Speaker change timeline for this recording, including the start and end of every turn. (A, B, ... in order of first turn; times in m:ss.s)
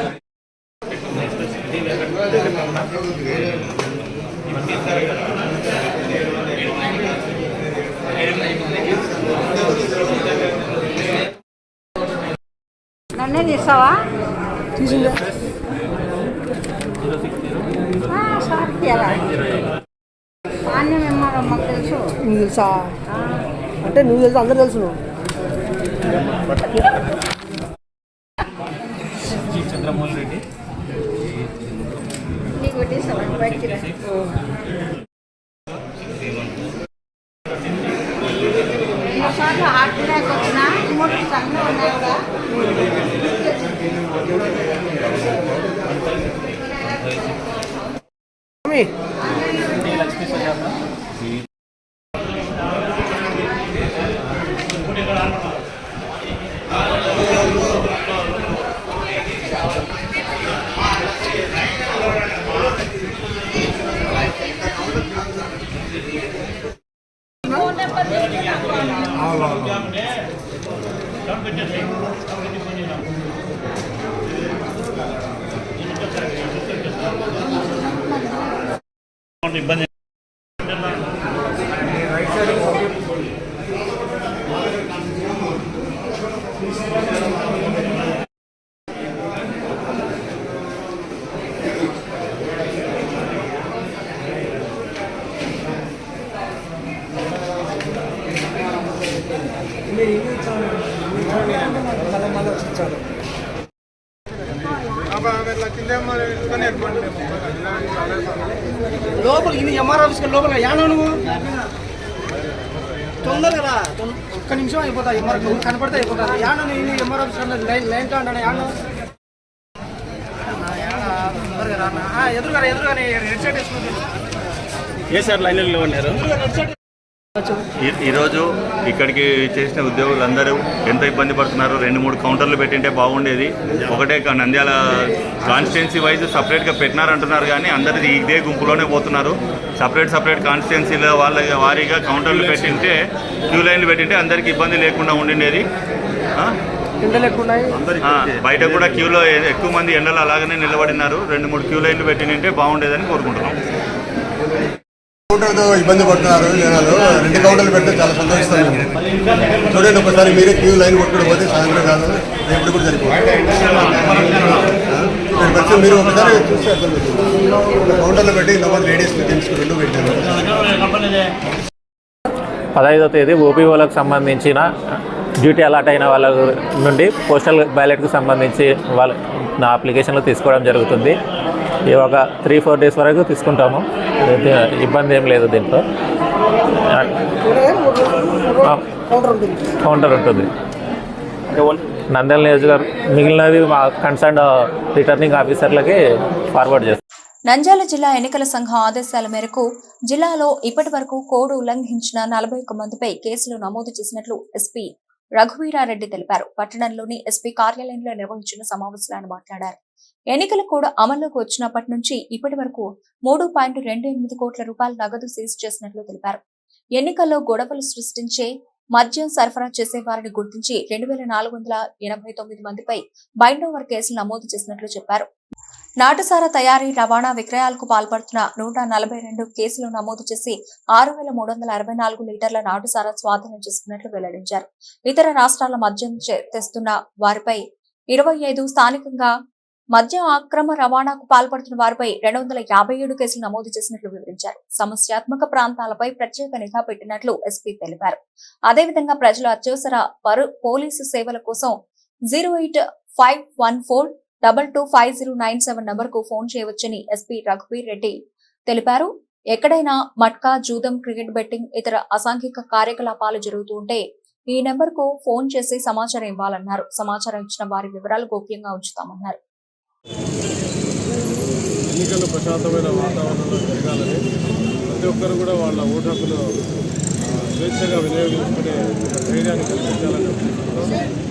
0:13.1-0:14.0 A
0:14.8-0:15.2 B
0:18.1-0:19.3 A
0:20.6-0:22.1 A
0:22.2-0:22.9 B
0:23.8-0:25.0 B
0:32.5-0:34.0 A
0:39.1-0:42.2 A
1:49.2-1:51.1 B
1:54.5-1:58.6 B
2:02.3-2:03.8 B
2:05.1-2:06.3 C
2:07.8-2:23.0 C
2:23.5-2:25.6 C
2:27.0-2:27.7 B
2:27.8-2:33.6 C
2:35.3-2:38.9 D
2:39.7-2:50.6 D
2:52.7-2:54.7 E
2:55.4-3:01.2 E
3:01.9-3:05.8 E
3:06.8-3:07.1 E
3:07.4-3:09.7 B
3:09.8-3:10.5 E
3:11.5-3:16.0 E
3:16.5-3:17.0 E
3:17.5-3:29.8 F
3:30.3-3:36.4 F
3:37.0-3:45.3 F
3:46.0-3:59.3 F
3:59.9-4:11.8 F
4:12.3-4:18.2 F
4:18.7-4:29.4 F
4:31.9-4:34.2 G
4:34.9-4:36.5 G
4:37.5-4:41.0 G